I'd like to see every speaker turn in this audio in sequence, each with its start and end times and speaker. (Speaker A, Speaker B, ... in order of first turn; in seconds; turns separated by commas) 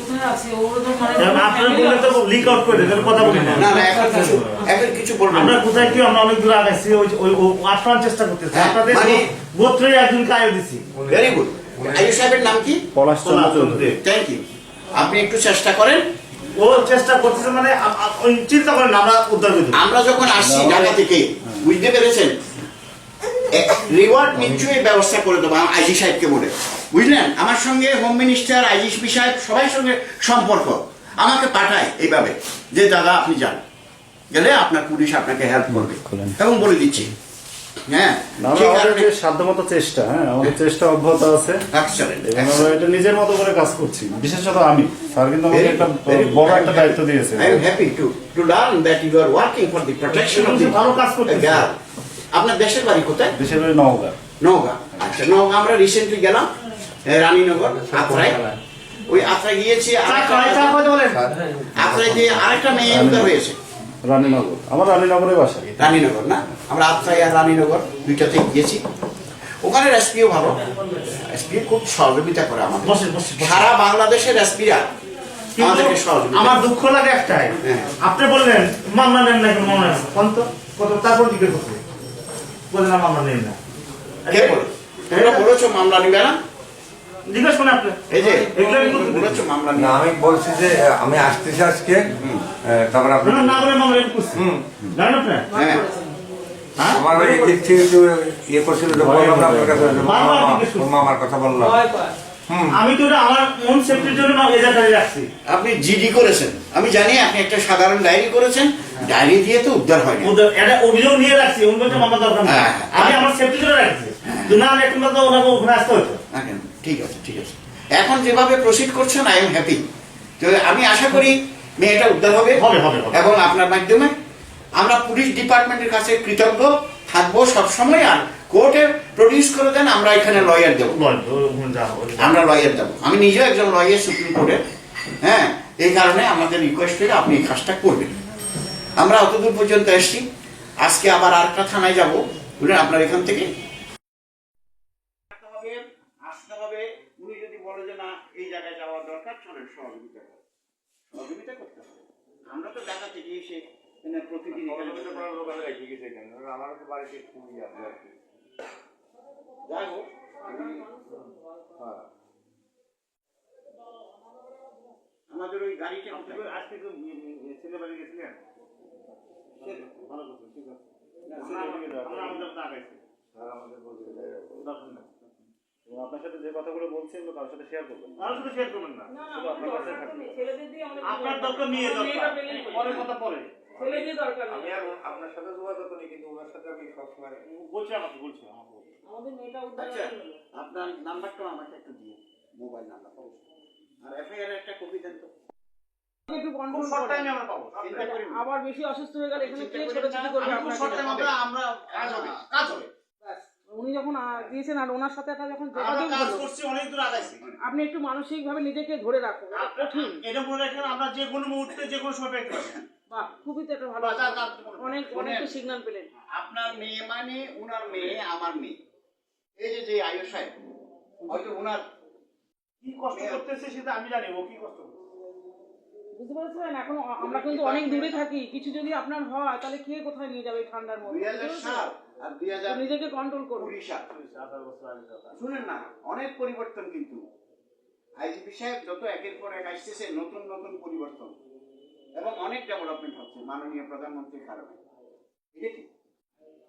Speaker A: 0.2-1.9, Speaker B: 0.3-2.1, Speaker C: 1.2-4.6, Speaker D: 3.4-5.9, Speaker C: 5.3-10.9, Speaker D: 8.5-9.3, Speaker D: 11.1-12.8, Speaker E: 12.9-13.9, Speaker C: 13.2-14.0, Speaker D: 14.0-16.1, Speaker C: 16.6-19.8, Speaker D: 19.7-22.4, Speaker E: 20.4-21.0, Speaker D: 23.5-33.6, Speaker D: 34.3-37.1, Speaker E: 35.7-36.4, Speaker D: 37.9-39.1, Speaker E: 38.4-41.6, Speaker D: 41.7-42.7, Speaker E: 42.2-47.6, Speaker D: 45.5-51.8, Speaker C: 50.3-51.7, Speaker D: 52.3-53.4, Speaker E: 53.4-54.2, Speaker D: 54.4-56.5, Speaker D: 57.0-58.5, Speaker D: 59.1-60.8, Speaker C: 60.0-61.2, Speaker D: 61.8-63.6, Speaker E: 62.9-63.3, Speaker E: 64.0-65.9, Speaker D: 65.8-68.8, Speaker D: 69.6-74.9, Speaker C: 72.8-73.7, Speaker C: 75.6-81.8, Speaker D: 75.6-76.6, Speaker D: 77.6-77.9, Speaker C: 82.7-83.6, Speaker C: 84.2-84.6, Speaker D: 84.3-86.4, Speaker C: 85.1-85.5, Speaker C: 87.3-89.4, Speaker D: 88.1-90.0, Speaker A: 89.8-92.0, Speaker D: 92.2-92.5, Speaker A: 92.6-93.6, Speaker C: 93.2-95.5, Speaker A: 94.4-94.7, Speaker B: 95.5-96.1, Speaker D: 95.5-95.9, Speaker C: 96.8-97.1, Speaker A: 97.0-102.8, Speaker E: 98.9-100.1, Speaker C: 100.0-100.9, Speaker B: 101.6-101.8, Speaker C: 102.7-105.3, Speaker D: 105.5-110.3, Speaker C: 110.2-116.2, Speaker D: 112.5-113.3, Speaker D: 114.2-114.6, Speaker D: 116.3-119.8, Speaker D: 120.4-124.1, Speaker C: 122.5-123.3, Speaker D: 124.8-131.0, Speaker C: 130.9-132.4, Speaker D: 132.2-134.6, Speaker D: 135.2-138.2, Speaker D: 139.0-140.3, Speaker D: 140.8-143.5, Speaker D: 145.3-150.4, Speaker D: 151.1-155.3, Speaker A: 154.7-158.1, Speaker D: 159.7-160.9, Speaker A: 161.8-162.1, Speaker D: 165.3-166.5, Speaker C: 166.1-168.4, Speaker C: 169.6-170.8, Speaker D: 171.2-171.8, Speaker C: 171.4-173.0, Speaker E: 171.5-172.4, Speaker A: 173.4-174.2, Speaker E: 174.2-174.5, Speaker C: 174.6-175.1, Speaker E: 175.9-178.4, Speaker C: 178.2-180.1, Speaker B: 179.1-183.1, Speaker E: 179.3-180.3, Speaker C: 181.0-184.1, Speaker B: 183.7-184.8, Speaker A: 184.5-187.4, Speaker C: 187.4-188.9, Speaker B: 189.0-190.2, Speaker D: 189.8-193.4, Speaker D: 194.0-195.3, Speaker B: 196.3-197.3, Speaker C: 196.7-198.1, Speaker D: 197.8-198.4, Speaker B: 198.0-201.1, Speaker D: 199.3-201.3, Speaker C: 200.4-202.9, Speaker D: 201.9-202.7, Speaker B: 203.2-206.5, Speaker C: 205.7-207.4, Speaker D: 207.2-207.6, Speaker B: 207.6-210.2, Speaker C: 209.5-212.8, Speaker D: 212.5-212.8, Speaker B: 213.1-216.1, Speaker C: 214.0-215.1, Speaker D: 215.1-215.5, Speaker D: 216.3-218.8, Speaker C: 217.9-218.2, Speaker D: 219.6-220.6, Speaker D: 221.3-221.8, Speaker C: 222.8-225.0, Speaker D: 223.1-223.4, Speaker B: 226.1-231.9, Speaker D: 227.2-228.2, Speaker D: 231.1-233.0, Speaker B: 232.7-233.7, Speaker D: 233.6-234.1, Speaker C: 234.1-235.4, Speaker D: 235.3-237.2, Speaker D: 238.2-241.3, Speaker D: 242.2-244.8, Speaker D: 245.6-245.9